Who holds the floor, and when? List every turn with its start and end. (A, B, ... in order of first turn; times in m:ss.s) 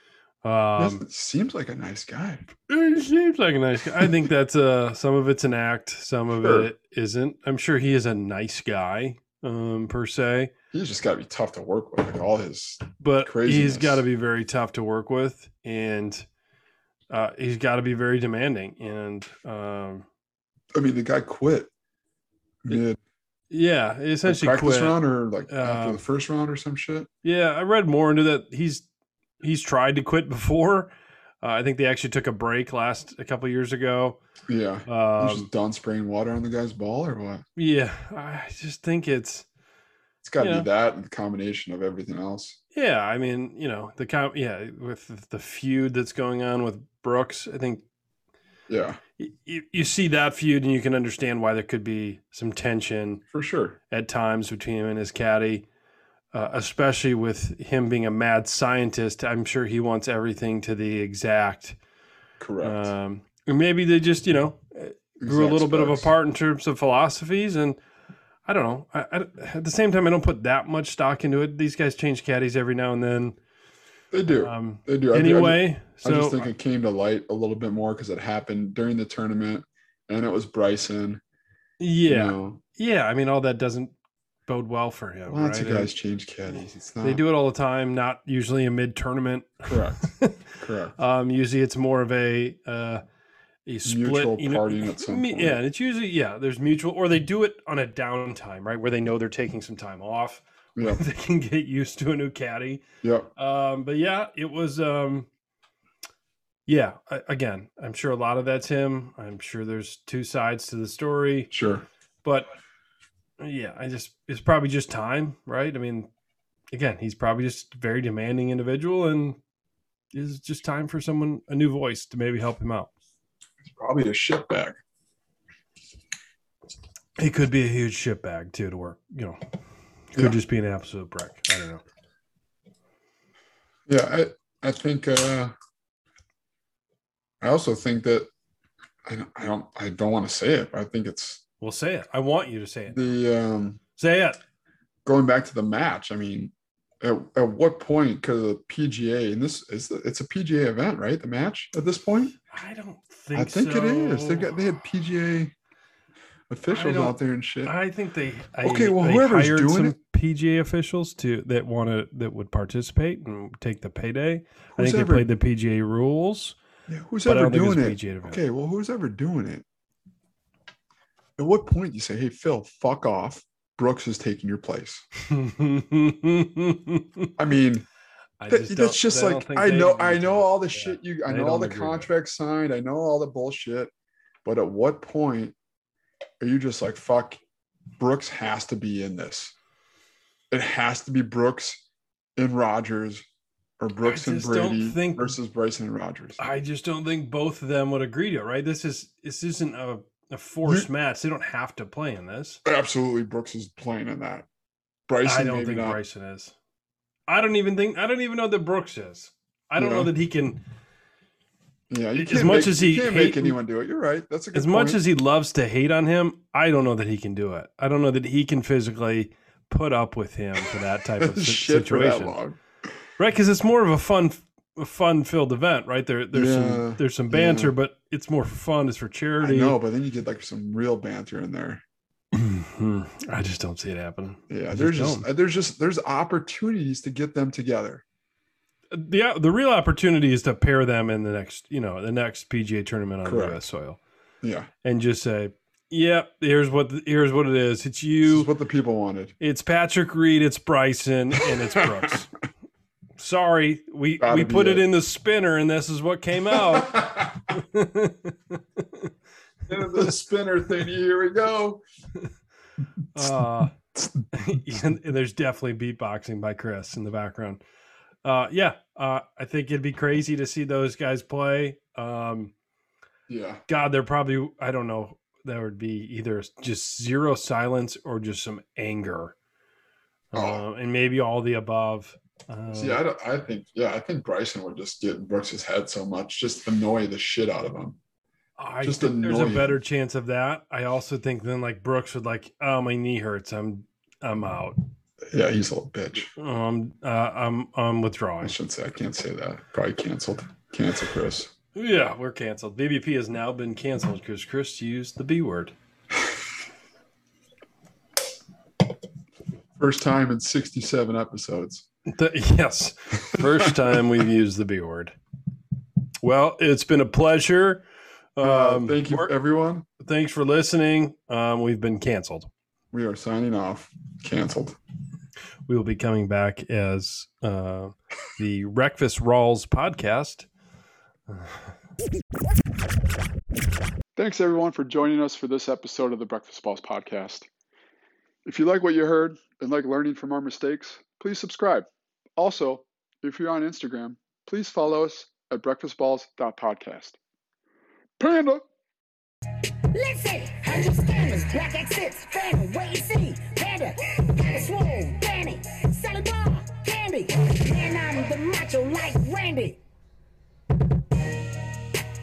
0:00.4-0:01.0 A
0:00.8-0:02.5 B
0:02.6-0:10.5 A
0:04.0-0:04.2 B
0:06.4-0:06.7 B
0:10.7-0:14.0 B
0:13.0-0:16.3 A
0:17.1-0:20.0 A
0:20.7-0:21.7 B
0:22.6-0:23.0 B
0:23.5-0:26.0 A
0:24.2-0:27.1 B
0:27.2-0:28.9 A
0:29.4-0:30.9 A
0:31.4-0:34.2 A
0:34.5-0:37.4 B
0:34.9-0:35.5 A
0:37.6-0:39.4 A
0:40.2-0:42.6 B
0:40.4-0:40.7 A
0:42.7-0:47.8 A
0:48.7-0:49.0 B
0:49.2-0:53.2 A
0:53.3-0:53.8 B
0:53.9-0:55.6 A
0:56.3-1:01.8 A
1:02.4-1:02.9 B
1:02.6-1:07.8 A
1:05.2-1:06.1 B
1:08.4-1:13.4 A
1:14.1-1:21.2 B
1:14.3-1:16.5 A
1:21.8-1:23.9 A
1:22.0-1:22.6 B
1:24.5-1:25.9 A
1:25.3-1:27.2 B
1:27.0-1:33.0 A
1:29.7-1:30.9 B
1:33.6-1:42.8 A
1:33.8-1:35.6 B
1:40.8-1:41.0 B
1:43.0-1:43.3 B
1:43.4-1:45.3 A
1:46.7-1:51.5 A
1:51.5-1:51.8 B
1:52.2-1:52.5 A
1:53.4-1:56.1 A
1:56.7-1:59.4 A
2:00.1-2:02.9 A
2:03.6-2:04.8 B
2:07.2-2:09.4 A
2:10.1-2:11.8 A
2:13.9-2:15.5 B
2:17.4-2:18.3 B
2:19.1-2:21.4 B
2:21.6-2:23.1 A
2:22.9-2:23.8 B
2:24.0-2:24.4 A
2:25.0-2:32.3 B
2:32.5-2:34.5 A
2:33.3-2:35.5 B
2:36.5-2:37.7 B
2:36.7-2:46.6 A
2:38.6-2:40.0 B
2:44.7-2:45.3 B
2:46.9-2:49.6 B
2:47.2-2:48.4 A
2:51.4-2:55.0 B
2:55.2-2:57.3 A
2:57.4-2:57.8 B
2:58.4-3:02.1 A
2:58.5-3:03.9 B
3:04.4-3:05.6 B
3:06.4-3:07.4 B
3:08.0-3:09.5 B
3:10.5-3:11.8 B
3:12.4-3:13.2 B
3:13.8-3:16.4 B
3:14.0-3:15.3 A
3:16.4-3:22.6 A
3:22.6-3:24.5 B
3:25.1-3:26.0 B
3:25.2-3:26.5 A
3:27.3-3:30.6 A
3:29.8-3:30.1 B
3:31.9-3:35.0 B
3:32.2-3:33.6 A
3:34.5-3:42.4 A
3:41.2-3:42.6 B
3:43.2-3:49.8 A
3:46.3-3:47.7 B
3:49.4-3:51.8 B
3:52.3-3:55.2 A
3:54.5-3:58.0 B
3:58.9-4:04.0 A
4:03.2-4:03.6 B
4:04.4-4:04.7 B
4:04.8-4:08.5 A
4:08.2-4:09.3 B
4:09.4-4:12.3 A
4:13.2-4:19.1 A
4:14.2-4:14.8 B
4:16.5-4:17.3 B
4:19.7-4:21.8 B
4:19.8-4:20.2 A
4:23.1-4:23.7 A
4:24.3-4:27.6 A
4:28.2-4:32.5 A
4:33.3-4:33.6 B
4:33.7-4:39.3 A
4:40.3-4:43.0 A
4:40.3-4:40.6 B
4:42.7-4:48.0 B
4:48.6-4:54.8 A
4:48.8-4:49.8 B
4:55.3-4:56.3 B
4:56.4-4:58.5 A
4:58.4-5:01.5 B
5:01.7-5:05.7 A
5:09.8-5:11.8 B
5:12.1-5:15.2 A
5:13.4-5:13.7 B
5:16.2-5:17.8 A
5:18.4-5:19.3 A
5:18.4-5:19.8 B
5:20.0-5:22.5 A
5:22.9-5:24.8 B
5:25.7-5:30.5 A
5:31.3-5:31.7 A
5:34.2-5:37.5 B
5:38.4-5:41.8 B
5:42.4-5:47.2 B
5:48.2-5:48.6 B
5:49.9-5:59.8 C